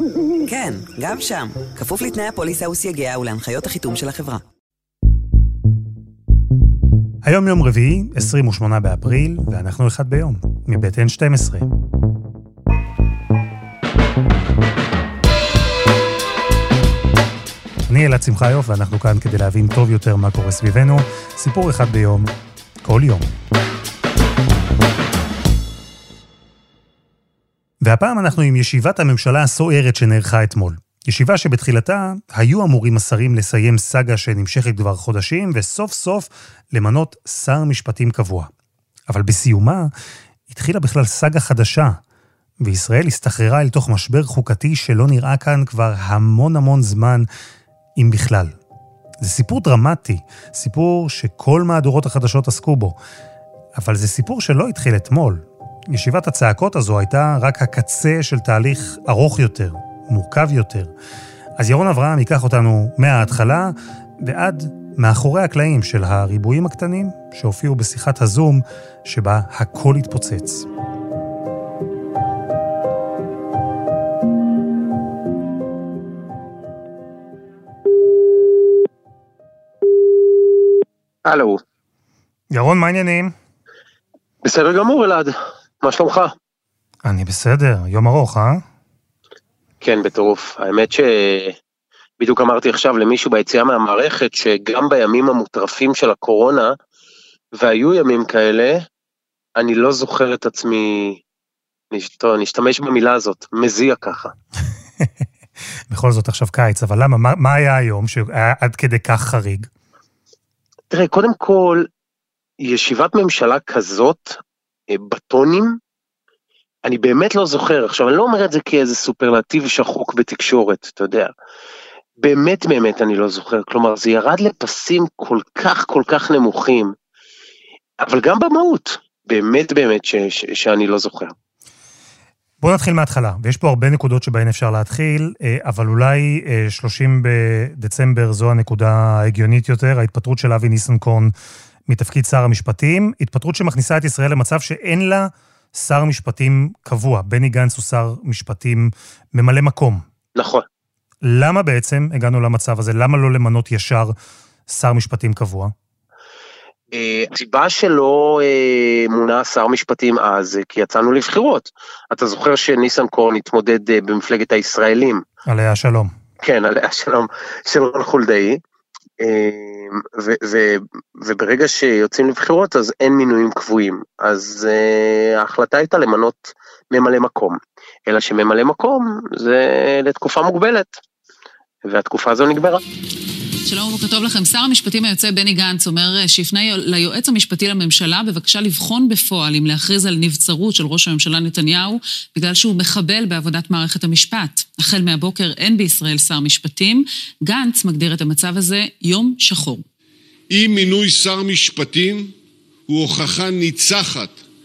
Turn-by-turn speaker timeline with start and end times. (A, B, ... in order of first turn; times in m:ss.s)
0:00.4-0:04.4 A
0:07.2-0:11.7 B
0:17.9-0:22.3 B
0:22.8-0:23.3 B
0:27.8-0:38.5 B
0:39.1-0:39.9 B
0:40.5-0:42.0 B
0:42.6-0:47.3 B
0:48.0-0:48.6 B
0:49.2-0:53.0 B
0:53.7-1:00.9 B
1:01.6-1:10.7 B
1:21.2-1:21.6 C
1:22.5-1:23.3 B
1:24.4-1:26.3 C
1:27.0-1:28.6 B
1:29.8-1:31.6 C
1:32.2-1:36.8 C
1:37.6-1:38.8 C
1:39.6-1:41.2 C
1:41.9-1:44.3 C
1:45.9-1:49.7 B
1:50.9-1:51.9 C
1:52.6-1:55.8 C
1:56.8-2:01.3 C
2:02.2-2:06.9 C
2:08.0-2:11.3 C
2:12.6-2:21.3 B
2:21.9-2:30.0 B
2:30.4-2:30.6 C
2:31.2-2:34.1 B
2:34.7-2:35.7 B
2:36.9-2:45.2 C
2:45.4-2:46.1 B
2:46.4-2:48.6 C
2:49.2-3:01.0 C
3:01.8-3:02.8 C
3:03.7-3:19.8 D
3:20.5-3:22.3 E
3:22.9-3:24.4 E